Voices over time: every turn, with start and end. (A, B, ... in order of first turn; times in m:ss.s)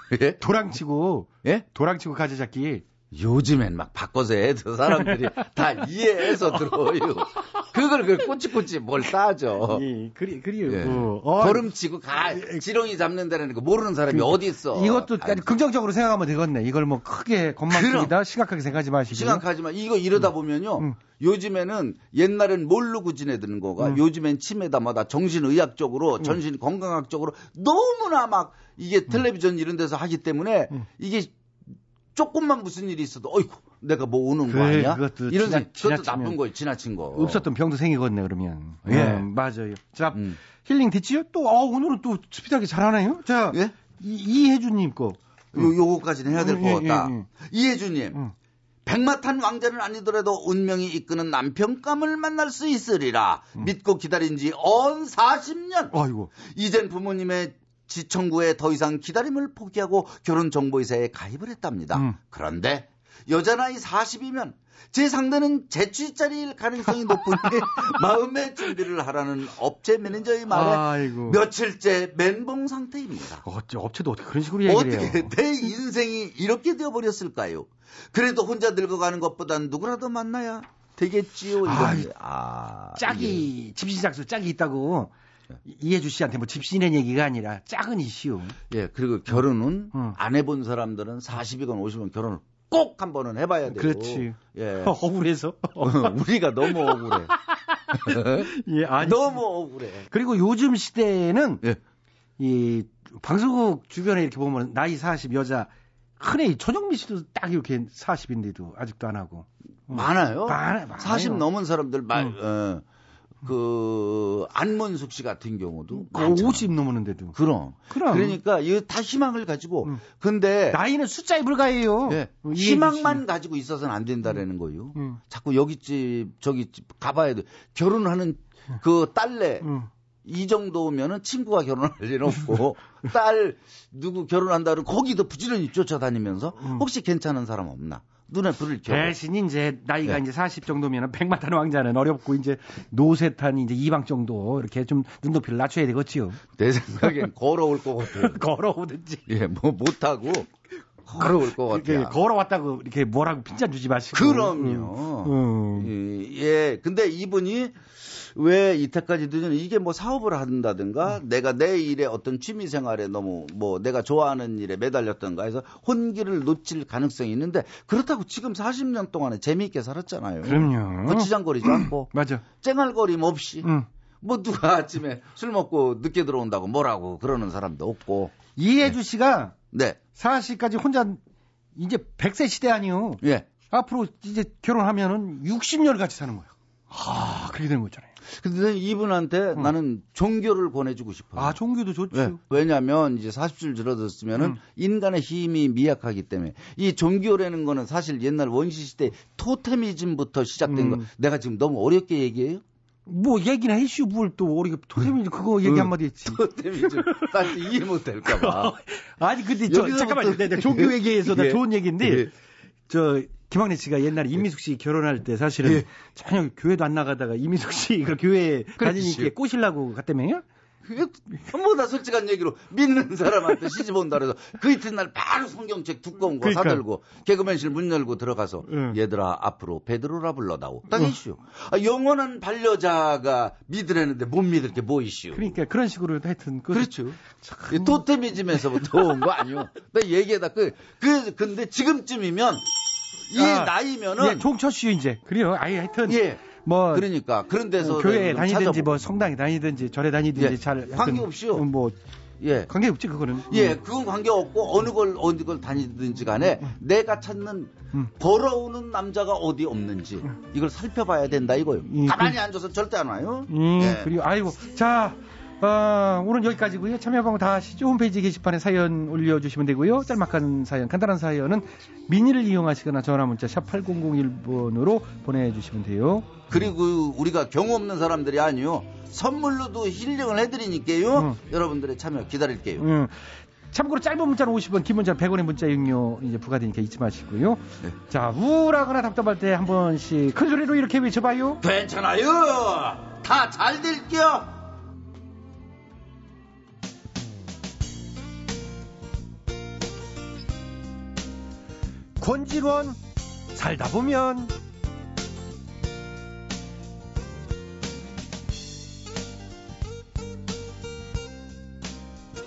0:00.1-0:00.4 A
0:00.4-0:02.8 B
0:03.1-0:09.8 A
0:09.6-0:12.6 B
0:10.6-0:15.5 A
0:14.1-0:19.4 B
0:17.7-0:18.2 A
0:19.1-0:31.3 A
0:32.1-0:37.4 A
0:34.5-0:36.4 B
0:37.1-0:45.7 B
0:38.8-0:39.3 A
0:40.1-0:40.4 A
0:45.5-0:48.2 A
0:46.3-0:47.3 B
0:48.8-1:13.4 A
0:55.9-0:56.3 B
1:07.1-1:07.6 B
1:10.5-1:11.4 B
1:13.4-1:15.3 B
1:14.6-1:23.5 A
1:21.6-1:22.1 B
1:22.9-1:25.1 B
1:25.6-1:28.6 B
1:28.7-1:34.9 A
1:33.6-1:37.2 B
1:35.8-1:37.3 A
1:37.9-1:38.5 A
1:37.9-1:39.4 B
1:39.0-1:40.1 A
1:40.1-1:41.6 B
1:42.4-1:51.4 B
1:49.9-1:52.8 A
1:53.4-1:56.7 A
1:55.9-1:57.4 B
1:57.3-2:00.8 A
1:57.9-1:58.4 B
2:00.7-2:03.2 B
2:02.0-2:09.7 A
2:09.6-2:09.9 B
2:10.2-2:19.1 A
2:18.8-2:26.4 B
2:26.6-2:28.4 A
2:28.0-2:29.2 B
2:29.3-2:30.5 A
2:31.0-2:32.2 A
2:31.2-2:35.9 B
2:34.1-2:53.7 A
2:50.4-2:52.4 B
2:53.6-2:53.9 B
2:54.2-2:58.4 A
2:58.6-2:59.6 B
2:59.7-3:00.0 A
3:00.1-3:01.2 B
3:01.8-3:08.1 B
3:03.2-3:03.5 A
3:08.3-3:11.6 A
3:11.4-3:12.4 B
3:12.1-3:22.6 A
3:20.6-3:21.1 B
3:23.0-3:27.7 B
3:25.0-3:28.8 A
3:28.2-3:32.3 B
3:29.6-3:32.3 A
3:32.9-3:40.4 B
3:38.8-3:39.3 A
3:40.8-3:55.5 A
3:46.4-3:46.8 B
3:48.6-3:49.0 B
3:55.3-3:59.3 B
3:56.7-4:02.7 A
4:03.3-4:04.4 A
4:03.3-4:07.1 B
4:06.0-4:08.9 A
4:07.8-4:12.0 B
4:10.3-4:11.6 A
4:12.4-4:12.7 A
4:12.7-4:13.8 B
4:13.5-4:24.1 A
4:21.8-4:22.4 B
4:23.5-4:36.6 B
4:36.5-4:42.8 A
4:42.8-4:51.6 B
4:51.6-4:54.6 A
5:02.2-5:03.0 B
5:03.5-5:04.5 B